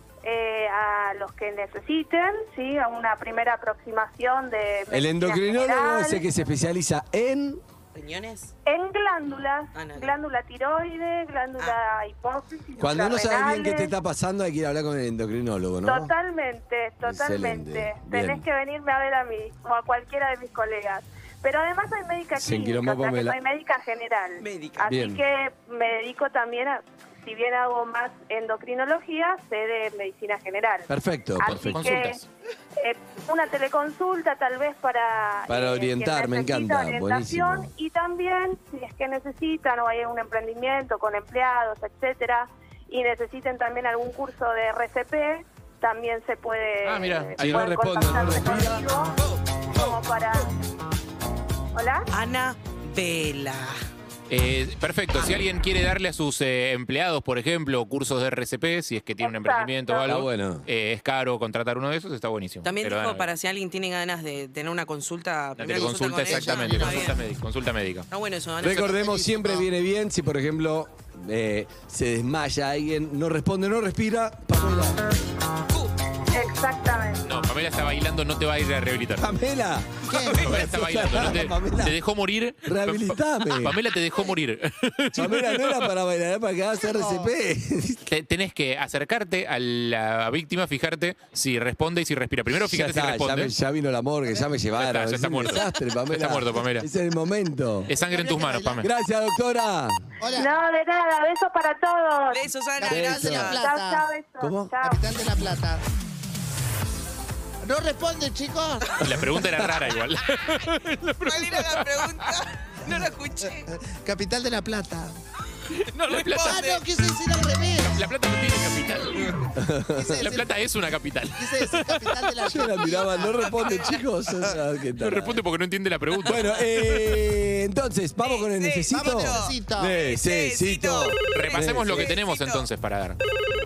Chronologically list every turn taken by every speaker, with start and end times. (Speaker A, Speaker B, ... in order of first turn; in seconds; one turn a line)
Speaker A: 0.2-6.2
Speaker B: 4.9-7.6
Speaker C: 7.9-8.5
Speaker A: 8.7-13.9
Speaker C: 9.7-10.2
Speaker B: 12.8-16.1
Speaker A: 15.9-30.9
Speaker B: 17.0-18.4
Speaker B: 22.4-23.4
Speaker C: 24.4-25.0
Speaker B: 24.9-25.2
Speaker B: 30.9-32.0
Speaker A: 31.4-32.2
Speaker D: 31.5-32.2
Speaker A: 32.8-49.1
Speaker B: 35.5-37.7
Speaker D: 46.8-47.6
Speaker B: 47.4-48.9
Speaker A: 49.8-50.5
Speaker A: 51.8-52.0
Speaker C: 52.1-53.8
Speaker D: 54.3-63.3
Speaker A: 59.2-60.1
Speaker B: 60.1-60.6
Speaker C: 62.6-67.2
Speaker D: 65.6-68.1
Speaker E: 66.3-67.1
Speaker C: 68.1-69.2
Speaker B: 68.6-75.0
Speaker E: 69.0-69.6
Speaker A: 76.3-77.2
Speaker D: 77.2-79.3
Speaker B: 79.2-82.0
Speaker E: 80.1-80.8
Speaker D: 80.4-85.9
Speaker B: 82.7-83.8
Speaker B: 85.2-88.0
Speaker E: 86.9-87.3
Speaker D: 88.1-93.5
Speaker B: 92.6-97.9
Speaker D: 94.8-96.9
Speaker D: 97.9-98.9
Speaker E: 97.9-98.8
Speaker B: 98.8-100.0
Speaker E: 100.2-100.5
Speaker A: 100.4-102.4
Speaker C: 102.3-103.6
Speaker E: 102.8-104.1
Speaker B: 102.9-103.5
Speaker A: 103.5-105.0
Speaker B: 104.4-104.8
Speaker E: 104.8-105.8
Speaker E: 107.6-109.5
Speaker D: 109.0-112.3
Speaker C: 111.2-113.7
Speaker E: 112.9-115.2
Speaker D: 116.0-116.8
Speaker C: 116.0-116.8
Speaker E: 116.4-118.1
Speaker D: 117.8-119.5
Speaker B: 119.6-120.2
Speaker E: 119.9-120.5
Speaker D: 120.2-122.3
Speaker E: 121.4-123.8
Speaker B: 122.5-125.4
Speaker C: 123.4-124.0
Speaker D: 125.0-127.2
Speaker B: 126.2-132.1
Speaker C: 128.2-132.7
Speaker E: 128.9-130.0
Speaker D: 131.3-133.2